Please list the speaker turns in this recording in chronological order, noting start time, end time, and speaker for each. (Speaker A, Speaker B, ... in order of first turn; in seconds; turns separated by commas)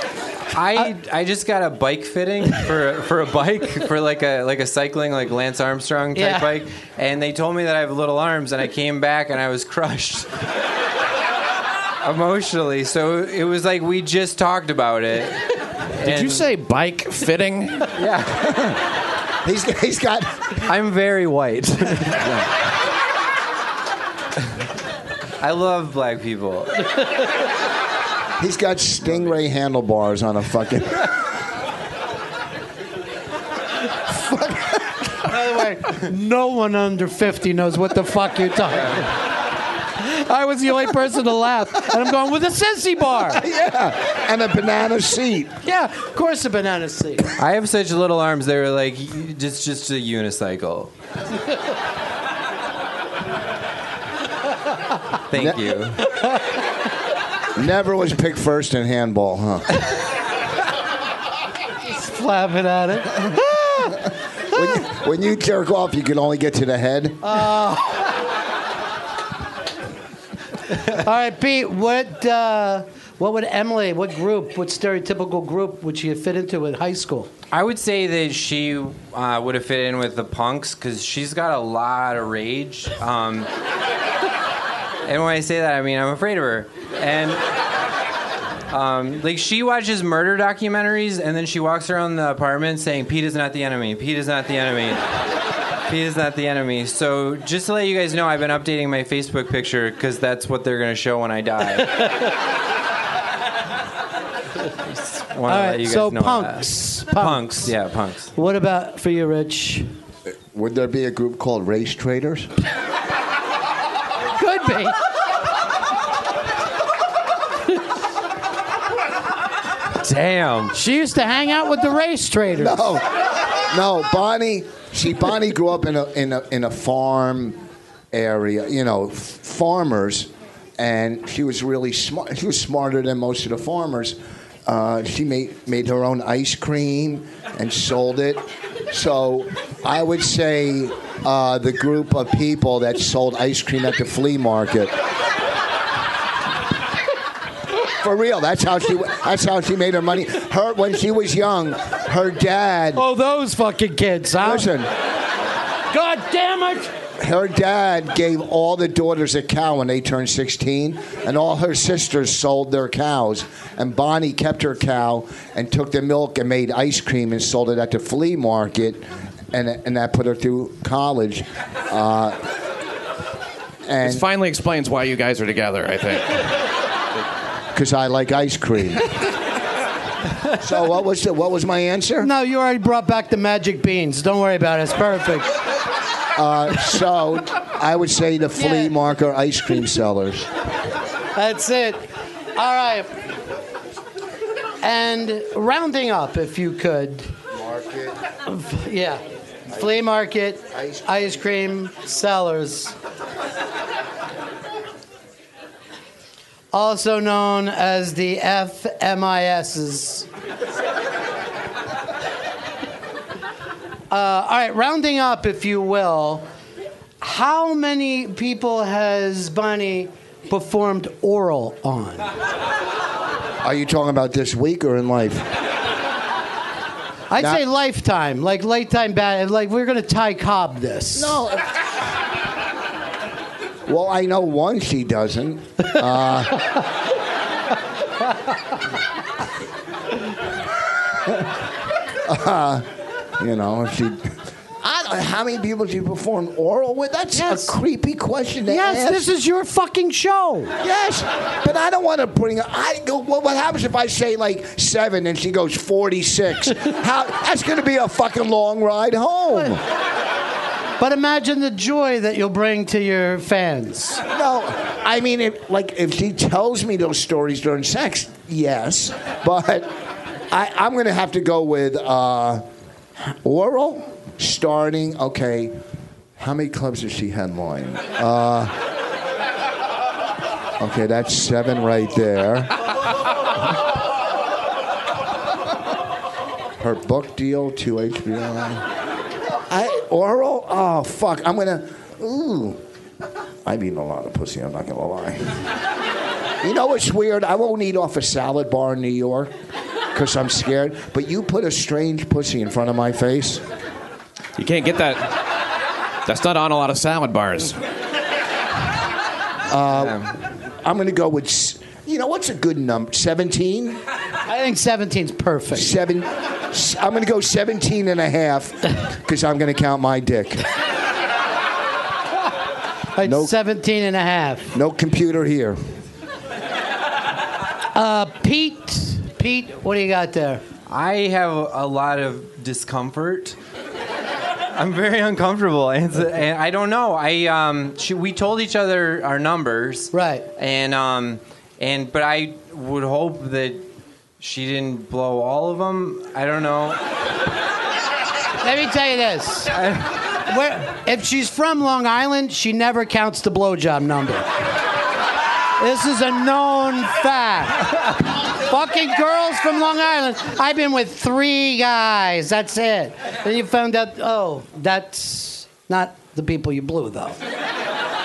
Speaker A: 0.5-10.3, Speaker B: 6.1-6.5, Speaker A: 12.0-16.4, Speaker C: 16.0-17.9, Speaker A: 17.9-18.5, Speaker D: 18.4-18.8, Speaker D: 19.4-20.5, Speaker A: 20.6-22.3, Speaker D: 22.2-22.5, Speaker A: 25.4-26.8, Speaker D: 28.4-31.2, Speaker D: 34.1-35.1, Speaker B: 35.2-39.1, Speaker B: 40.0-43.4, Speaker D: 43.3-45.6, Speaker B: 45.6-47.3, Speaker A: 47.4-50.9, Speaker A: 55.3-56.1, Speaker D: 55.3-55.7, Speaker D: 57.5-59.7, Speaker B: 61.8-64.0, Speaker D: 64.5-67.4, Speaker B: 67.2-68.1, Speaker B: 70.9-77.3, Speaker A: 77.5-83.5, Speaker A: 85.0-87.4, Speaker A: 88.7-95.1, Speaker A: 95.9-102.2, Speaker A: 104.9-108.3, Speaker B: 105.5-107.7, Speaker B: 108.4-109.9, Speaker D: 110.5-112.5, Speaker B: 114.4-115.0, Speaker A: 120.0-120.7, Speaker B: 120.7-122.8, Speaker D: 122.6-127.6, Speaker D: 128.1-144.9, Speaker D: 148.0-153.0, Speaker B: 152.9-154.7, Speaker D: 154.4-154.9, Speaker B: 155.9-156.9, Speaker D: 157.2-172.4, Speaker D: 173.9-174.2, Speaker C: 174.0-176.4, Speaker D: 177.7-179.1, Speaker D: 180.6-182.3, Speaker B: 182.2-185.6, Speaker D: 186.3-190.5, Speaker B: 188.6-188.9, Speaker B: 191.3-193.1, Speaker B: 194.8-197.3, Speaker D: 197.5-198.2, Speaker B: 198.5-202.9, Speaker D: 200.7-201.3, Speaker B: 206.7-210.3, Speaker B: 214.1-216.4, Speaker B: 217.2-222.3, Speaker D: 223.6-225.5, Speaker B: 227.3-231.4, Speaker D: 231.1-231.7, Speaker D: 233.9-236.7, Speaker D: 241.3-241.5, Speaker D: 242.2-242.9, Speaker D: 243.4-249.3, Speaker B: 247.3-247.7, Speaker B: 248.7-250.7, Speaker D: 250.8-259.8, Speaker B: 261.0-264.2, Speaker D: 264.3-269.9, Speaker D: 270.5-272.6, Speaker D: 273.2-275.8, Speaker D: 276.4-278.8, Speaker D: 280.8-282.8, Speaker D: 286.8-288.9, Speaker D: 289.7-292.8, Speaker D: 293.7-295.7, Speaker D: 296.6-299.5, Speaker D: 300.1-303.6, Speaker C: 304.6-305.4, Speaker C: 306.2-307.8, Speaker D: 309.7-314.0, Speaker A: 309.9-310.3, Speaker B: 314.5-315.9, Speaker D: 315.7-320.7, Speaker B: 323.2-324.7, Speaker D: 323.2-323.5, Speaker D: 324.7-325.8, Speaker B: 327.9-330.6, Speaker A: 330.9-333.6, Speaker A: 334.8-343.8, Speaker B: 340.1-340.5, Speaker A: 344.4-347.0, Speaker B: 348.6-349.7, Speaker A: 349.7-350.1, Speaker B: 350.5-354.5, Speaker B: 355.8-367.4